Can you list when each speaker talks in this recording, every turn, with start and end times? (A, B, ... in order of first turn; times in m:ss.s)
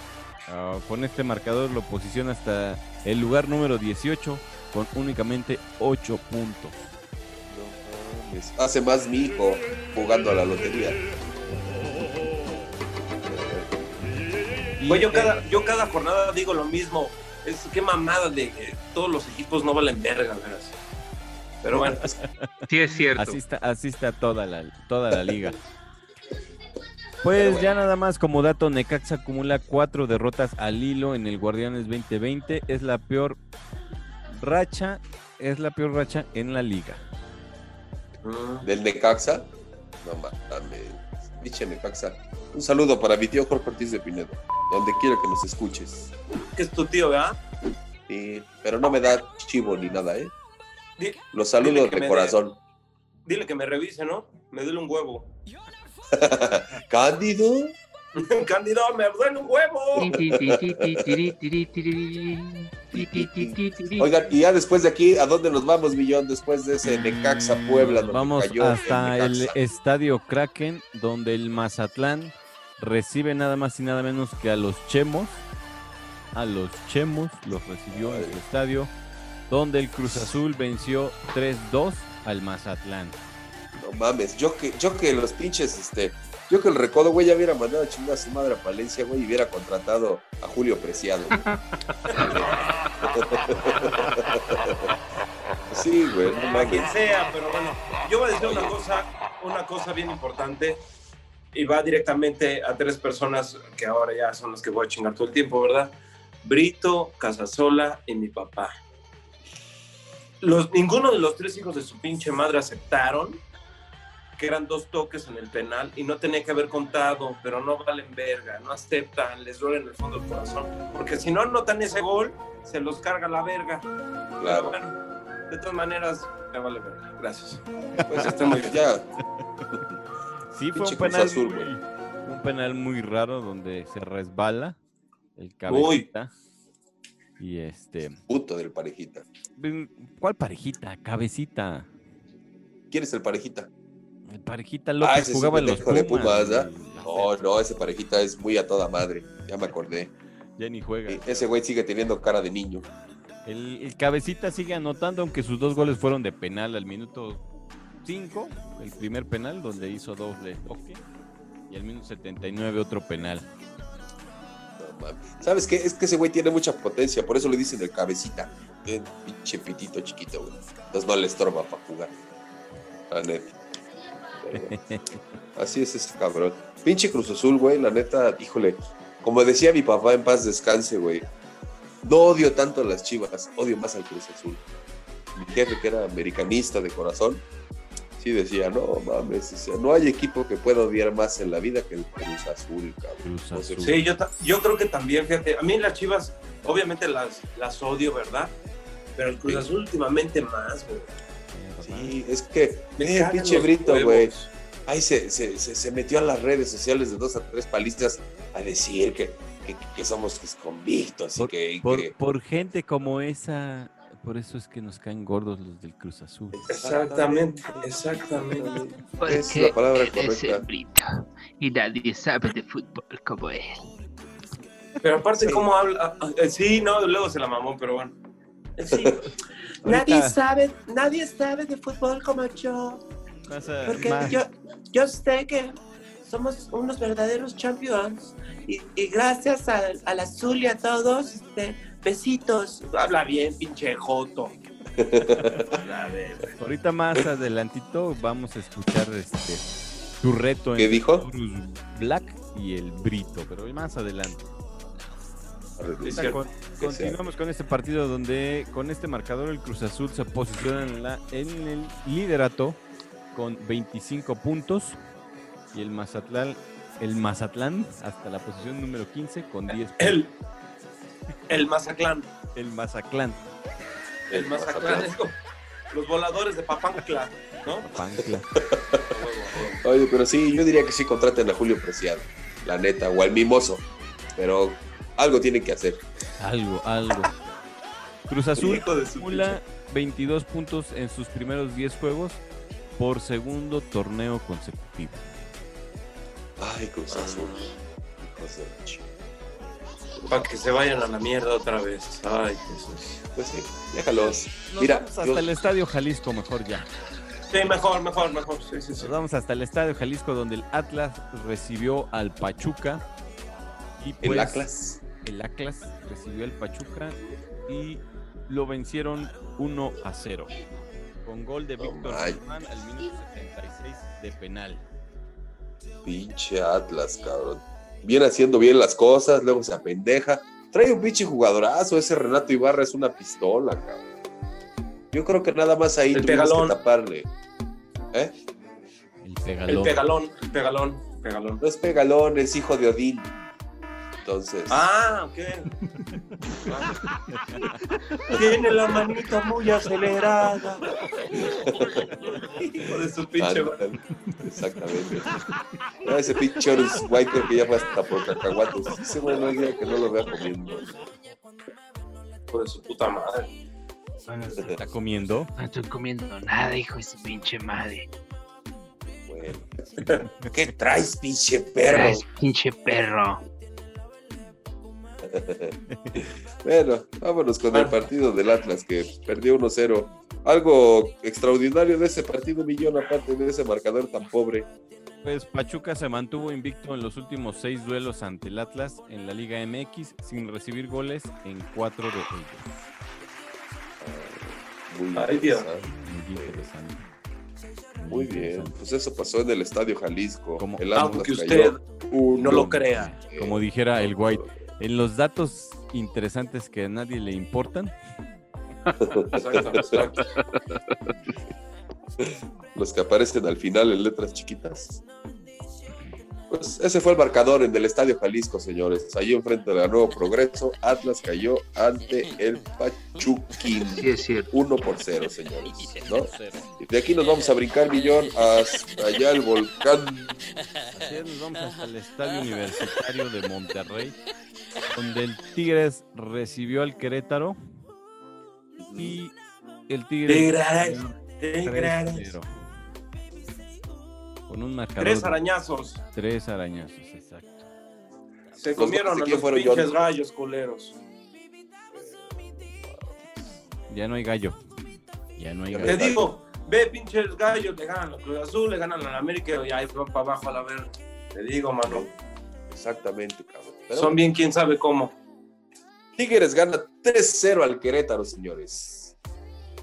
0:00.5-0:06.9 A
0:07.5-0:11.0 B
0:13.2-0:13.7 B
0:14.8-0:15.4 A
0:14.9-0:20.8 C
0:21.6-0:22.1 C
0:22.0-0:22.5 A
0:22.7-0:23.4 D
0:23.2-0:25.6 A
0:27.2-0:33.4 A
0:27.3-0:27.8 B
0:34.3-0:37.0 A
0:38.2-0:38.6 C
0:38.6-0:39.5 B
0:40.0-0:46.1 B
0:46.4-0:47.4 C
0:48.1-0:50.3 B
0:51.0-0:52.4 C
0:51.3-0:52.6 B
0:53.2-0:55.3 C
0:56.1-0:57.8 B
0:58.1-1:00.1 C
1:00.0-1:04.1 D
1:00.1-1:01.2 B
1:02.9-1:09.6 B
1:07.8-1:15.4 A
1:16.3-1:18.9 A
1:17.9-1:18.4 B
1:19.5-1:23.2 A
1:23.8-1:31.5 B
1:32.1-1:34.9 B
1:35.7-1:36.9 B
1:36.3-1:40.8 C
1:38.4-1:38.8 B
1:41.5-1:48.7 C
1:50.4-1:53.4 C
1:54.4-2:03.9 C
2:04.4-2:04.8 B
2:04.4-2:05.0 C
2:05.5-2:07.6 C
2:08.0-2:08.3 A
2:08.0-2:09.1 B
2:08.2-2:08.8 C
2:10.5-2:14.8 A
2:10.7-2:11.7 B
2:15.4-2:16.3 A
2:15.7-2:16.1 C
2:17.4-2:18.2 A
2:18.3-2:19.2 B
2:19.6-2:21.9 A
2:22.9-2:23.7 B
2:24.3-2:27.4 A
2:25.0-2:30.1 B
2:30.6-2:31.5 A
2:31.1-2:32.9 B
2:33.4-2:37.4 A
2:38.0-2:41.0 A
2:41.7-2:43.5 A
2:44.8-2:52.2 B
2:53.1-2:53.6 B
2:54.4-2:54.7 B
2:54.5-2:55.2 A
2:55.6-3:01.3 B
3:02.0-3:04.6 B
3:05.3-3:07.4 B
3:08.2-3:13.9 B
3:13.2-3:14.0 A
3:13.8-3:18.5 C
3:19.2-3:21.1 C
3:21.5-3:22.1 A
3:21.8-3:24.3 B
3:23.0-3:24.5 C
3:24.8-3:32.1 B
3:31.4-3:36.6 A
3:36.5-3:40.6 B
3:36.7-3:38.8 C
3:39.2-3:43.9 D
3:45.0-3:48.1 C
3:45.4-3:45.6 B
3:48.8-3:53.0 C
3:48.9-3:49.2 B
3:49.8-3:50.3 A
3:53.5-3:54.4 A
3:53.8-4:04.6 C
4:05.0-4:05.8 B
4:05.7-4:06.5 C
4:06.6-4:09.6 A
4:10.2-4:14.4 A
4:10.8-4:11.3 B
4:15.8-4:17.3 B
4:16.0-4:16.4 C
4:16.1-4:22.8 A
4:23.3-4:25.0 A
4:25.7-4:30.2 A
4:29.7-4:30.3 C
4:31.5-4:32.3 C
4:32.5-4:33.5 A
4:34.3-4:35.1 B
4:34.3-4:35.4 C
4:35.9-4:37.9 C
4:37.8-4:38.5 A
4:38.6-4:43.8 B
4:39.1-4:39.8 C
4:44.4-4:46.0 B
4:46.4-4:47.3 A
4:48.3-4:52.4 A
4:48.6-4:49.5 C
4:53.0-4:55.3 A
4:56.6-4:59.1 B
4:57.1-4:57.7 C
5:00.2-5:00.4 B
5:00.2-5:03.2 C
5:03.3-5:05.4 B
5:04.7-5:06.9 A
5:07.5-5:09.1 C
5:09.0-5:13.0 A
5:14.0-5:14.6 A
5:14.2-5:15.0 B
5:15.2-5:20.5 A
5:21.2-5:24.8 A
5:21.8-5:22.4 B
5:26.0-5:34.0 B
5:35.1-5:37.3 B
5:36.1-5:36.8 C
5:39.2-5:40.0 A
5:39.6-5:41.6 C
5:41.6-5:43.3 B
5:44.2-5:44.9 B
5:44.7-5:45.7 C
5:46.6-5:46.9 C
5:47.3-5:47.7 A
5:48.3-5:50.9 C
5:51.3-5:52.2 B
5:52.4-5:53.8 C
5:53.4-5:55.3 B
5:56.0-6:00.9 B
6:02.5-6:03.5 C
6:04.2-6:04.6 D
6:04.5-6:04.9 B
6:04.5-6:05.5 A
6:05.6-6:08.1 D
6:09.3-6:09.7 B
6:10.5-6:12.2 B
6:11.8-6:13.4 D
6:15.2-6:24.7 B
6:15.9-6:16.2 A
6:17.7-6:18.0 C
6:25.2-6:32.8 A
6:34.0-6:36.7 B
6:35.1-6:35.7 C
6:36.0-6:37.0 A
6:38.0-6:38.7 A
6:38.1-6:44.6 B
6:40.6-6:40.9 A
6:40.9-6:41.8 C
6:42.3-6:43.1 C
6:42.3-6:47.9 A
6:49.0-6:50.1 B
6:49.3-6:50.3 C
6:52.2-6:55.0 B
6:56.5-7:10.4 B
7:03.9-7:04.5 D
7:06.1-7:06.7 A
7:10.9-7:14.2 A
7:14.9-7:17.6 A
7:18.8-7:19.2 B
7:19.0-7:19.3 A
7:19.9-7:21.1 A
7:20.2-7:22.3 C
7:21.6-7:22.5 A
7:24.5-7:25.4 A
7:25.0-7:26.0 C
7:26.1-7:27.7 A
7:28.6-7:31.0 C
7:28.8-7:29.9 B
7:31.9-7:33.6 B
7:33.9-7:34.6 A
7:35.4-7:36.2 A
7:35.7-7:36.3 B
7:35.8-7:42.1 C
7:41.8-7:42.1 B
7:42.7-7:44.2 B
7:43.9-7:45.1 C
7:46.2-7:49.1 B